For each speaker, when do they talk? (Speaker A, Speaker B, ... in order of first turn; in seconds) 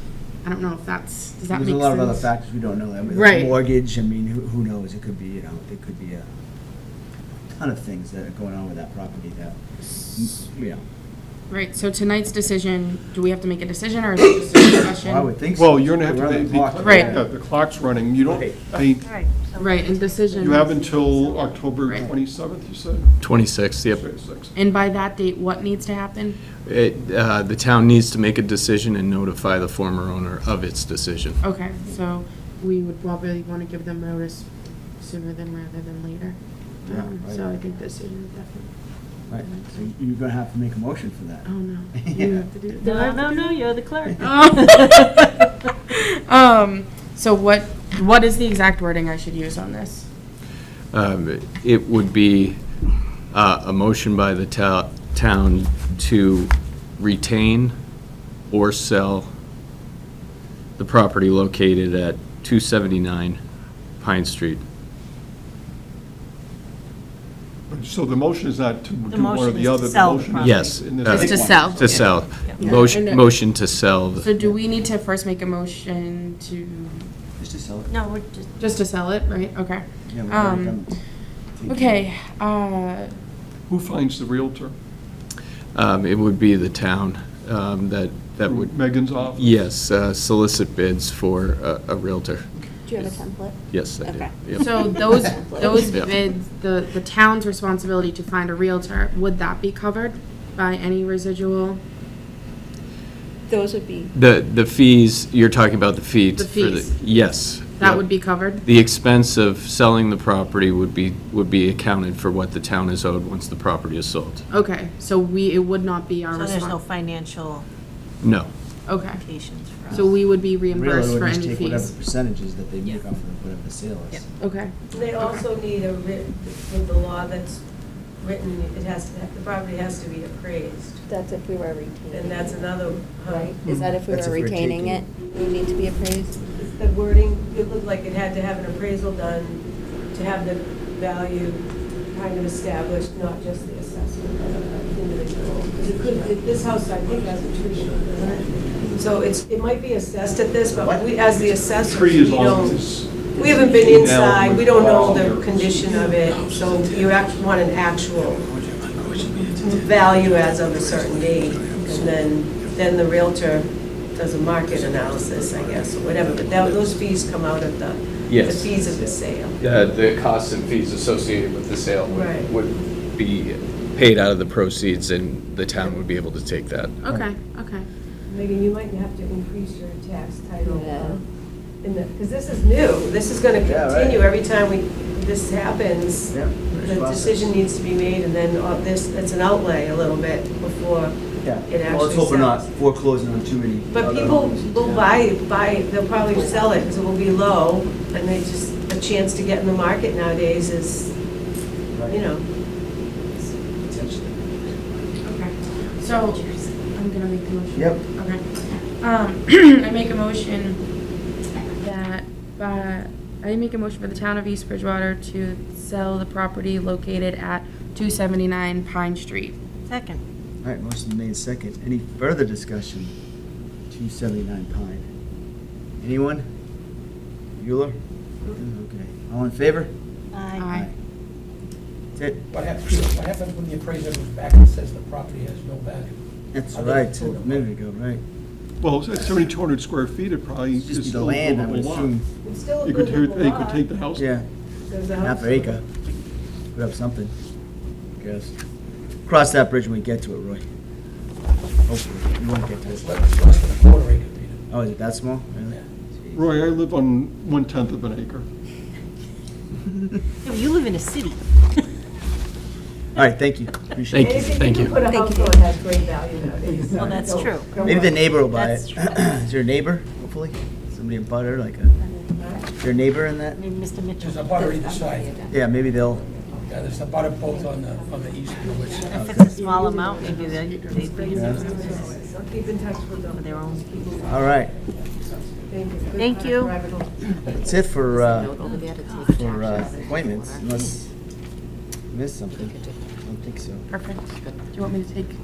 Speaker A: 0.4-2.3, 3.1-3.5, 11.5-15.3, 16.8-17.2, 19.6-20.7, 21.7-22.1, 24.6-26.4, 31.4-38.7, 39.3-39.8, 41.5-43.5, 44.2-50.1, 71.0-73.4, 74.2-77.1, 78.6-80.8, 81.7-83.2, 94.5-101.8, 106.4-108.7, 114.5-116.8, 118.9-121.9, 124.4-125.4, 177.0-177.9, 205.2-210.8, 211.8-219.6, 230.6-230.9, 279.7-280.6, 293.9-295.4
Speaker B: 1.5-6.2, 7.5-10.8, 15.0-17.3, 18.2-18.8, 36.8-37.5, 39.3-42.5, 71.0-72.2, 77.4-77.9, 80.1-81.0, 81.5-82.0, 119.9-120.2, 120.7-124.3, 134.1-135.1, 148.6-149.2, 150.7-151.9, 158.2-162.8, 164.6-166.9, 168.8-169.2, 183.6-184.3, 186.3-187.5, 191.4-195.2, 201.9-202.2, 203.8-204.7, 207.8-208.0, 220.6-223.1, 223.9-225.1, 226.0-226.5, 227.6-228.0, 228.5-229.9, 230.6-230.9, 232.2-232.4, 236.5-238.2, 240.8-242.2, 244.2-244.5, 245.2-245.8, 246.7-247.3, 248.2-248.5, 249.3-250.7, 251.9-253.1, 254.7-256.5, 263.1-264.6, 267.8-271.9, 272.8-273.6, 275.5-276.2, 279.1-279.5, 281.3-281.7, 284.3-284.7, 287.5-288.6, 289.3-291.1, 292.1-293.9
Speaker C: 15.5-19.1, 20.4-24.5, 67.7-71.8, 83.7-84.7, 88.4-89.7, 133.6-134.0, 151.8-156.1, 238.8-242.2, 242.8-244.3, 256.4-258.5
Speaker D: 19.0-21.5, 42.8-45.3, 69.1-70.8, 77.9-78.5, 116.3-117.7, 118.9-120.1, 219.9-220.2, 230.3-230.7, 260.4-261.4, 267.0-267.7, 268.5-268.9, 273.6-274.8, 279.1-281.8, 283.3-284.1, 286.2-286.7, 288.6-289.4
Speaker E: 23.2-24.0, 26.6-31.4, 50.9-52.6, 53.3-57.8, 58.5-59.3, 60.8-63.4, 64.0-64.6, 70.4-74.3, 85.7-93.2, 93.7-95.0, 95.8-96.1, 104.1-114.4, 118.2-118.5, 168.3-168.8, 169.6-177.0, 264.1-265.0
Speaker F: 92.8-96.1, 103.5-104.1, 131.1-136.4, 145.0-146.4, 180.6-181.2, 265.0-265.6, 274.8-276.5, 277.5-280.2, 281.8-282.2, 287.9-290.7
Speaker G: 124.9-127.6, 128.2-131.0, 132.1-133.6, 136.6-158.5, 159.7-169.6, 172.1-172.5, 178.3-181.2, 181.8-192.7, 193.9-201.2, 202.1-202.5, 242.4-243.8, 244.9-245.8, 264.2-268.5, 272.4-272.7, 279.8-285.1, 285.7-287.5
Speaker H: 156.0-157.2, 232.5-236.2, 236.7-237.7, 252.8-254.6, 274.2-275.4, 276.5-279.3, 280.1-280.4